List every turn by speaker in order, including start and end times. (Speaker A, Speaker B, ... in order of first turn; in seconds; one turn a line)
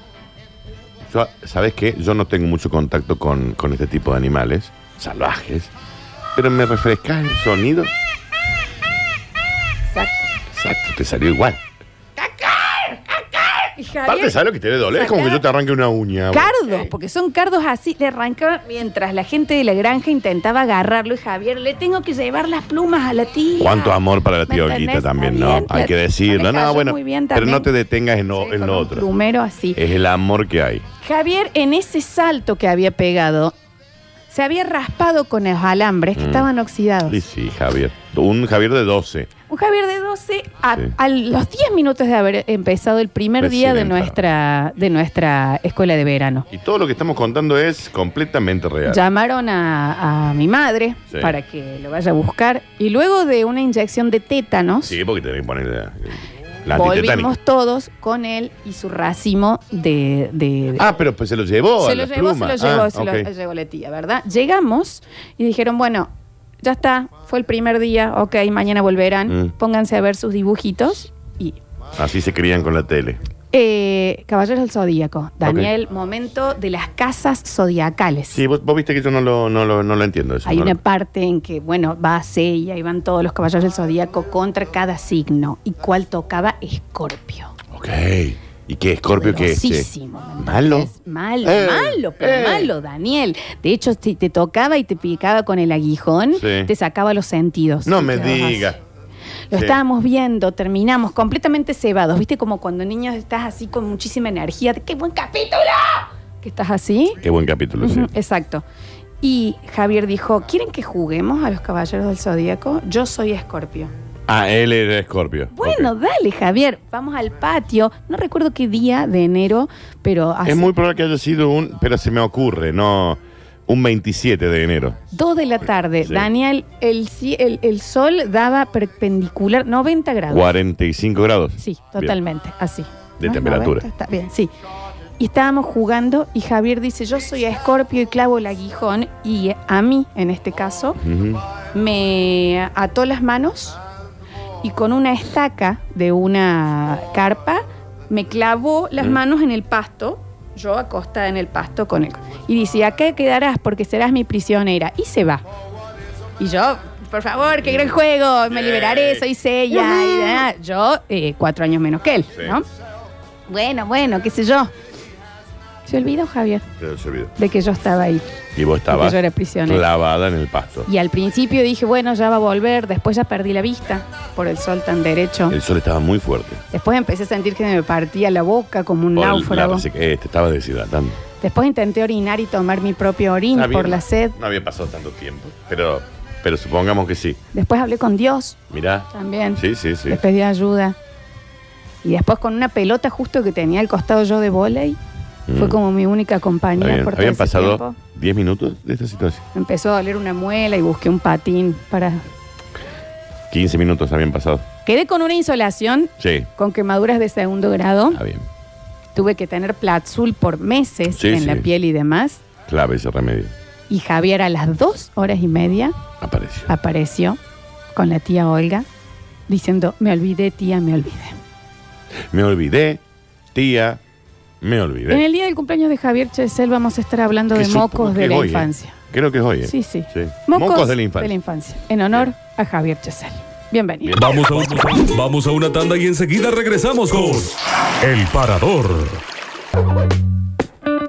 Speaker A: 1.1-5.7
Speaker A: 6.3-7.9
Speaker B: 9.9-10.3
Speaker A: 10.5-11.6
Speaker B: 12.2-13.2
Speaker B: 13.8-14.4
Speaker A: 14.1-16.9
Speaker B: 14.9-15.4
Speaker B: 16.3-24.0
Speaker A: 23.6-29.1
Speaker B: 24.5-27.7
Speaker B: 28.4-29.8
Speaker A: 29.8-30.9
Speaker B: 31.0-33.5
Speaker B: 34.3-37.2
Speaker A: 36.2-36.5
Speaker A: 37.1-39.3
Speaker B: 39.5-46.5
Speaker A: 43.4-44.2
Speaker A: 46.5-49.0
Speaker B: 48.9-55.0
Speaker A: 54.9-57.3
Speaker B: 56.7-60.9
Speaker A: 60.8-63.3
Speaker B: 61.8-66.1
Speaker B: 66.6-71.6
Speaker A: 69.3-69.5
Speaker A: 72.0-73.2
Speaker B: 73.5-78.4
Speaker A: 75.4-75.7
Speaker A: 78.3-80.8
Speaker B: 80.5-87.5
Speaker A: 87.7-89.9
Speaker B: 89.1-98.7
Speaker A: 90.4-90.9
Speaker A: 91.4-92.7
Speaker A: 96.3-96.7
Speaker A: 97.9-98.8
Speaker B: 99.5-107.2
Speaker A: 99.5-99.8
Speaker A: 107.2-108.1
Speaker B: 107.8-108.6
Speaker B: 109.2-113.9
Speaker A: 114.3-115.9
Speaker B: 115.5-120.7
Speaker A: 120.5-125.0
Speaker B: 125.1-130.5
Speaker A: 126.0-126.3
Speaker A: 130.3-132.2
Speaker B: 131.6-134.5
Speaker A: 133.2-133.8
Speaker B: 135.2-141.0
Speaker A: 141.0-141.4
Speaker B: 141.7-143.8
Speaker B: 144.6-155.4
Speaker B: 156.4-162.7
Speaker A: 157.6-158.0
Speaker A: 158.5-160.4
Speaker B: 163.5-164.7
Speaker B: 165.9-166.6
Speaker A: 166.8-167.3
Speaker B: 167.4-168.2
Speaker A: 168.5-170.9
Speaker B: 168.9-169.8
Speaker B: 170.9-175.6
Speaker A: 175.5-176.6
Speaker B: 176.7-179.9
Speaker A: 179.2-181.2
Speaker B: 181.4-184.4
Speaker A: 183.5-187.4
Speaker B: 187.5-188.6
Speaker A: 188.7-190.2
Speaker B: 189.1-191.0
Speaker B: 192.0-195.0
Speaker A: 195.5-195.8
Speaker B: 195.6-198.0
Speaker A: 196.8-199.4
Speaker B: 199.6-202.2
Speaker A: 203.5-204.7
Speaker B: 204.8-208.2
Speaker A: 206.2-206.5
Speaker A: 208.1-208.5
Speaker B: 209.2-212.4
Speaker A: 211.1-211.7
Speaker A: 212.7-213.5
Speaker B: 213.9-215.9
Speaker A: 216.2-216.7
Speaker B: 216.7-217.4
Speaker B: 217.9-218.9
Speaker B: 219.5-221.4
Speaker A: 222.3-223.0
Speaker A: 223.5-224.0
Speaker A: 224.6-225.2
Speaker B: 225.1-229.0
Speaker A: 227.5-231.3
Speaker B: 229.6-234.1
Speaker A: 234.1-234.7
Speaker C: 234.2-239.2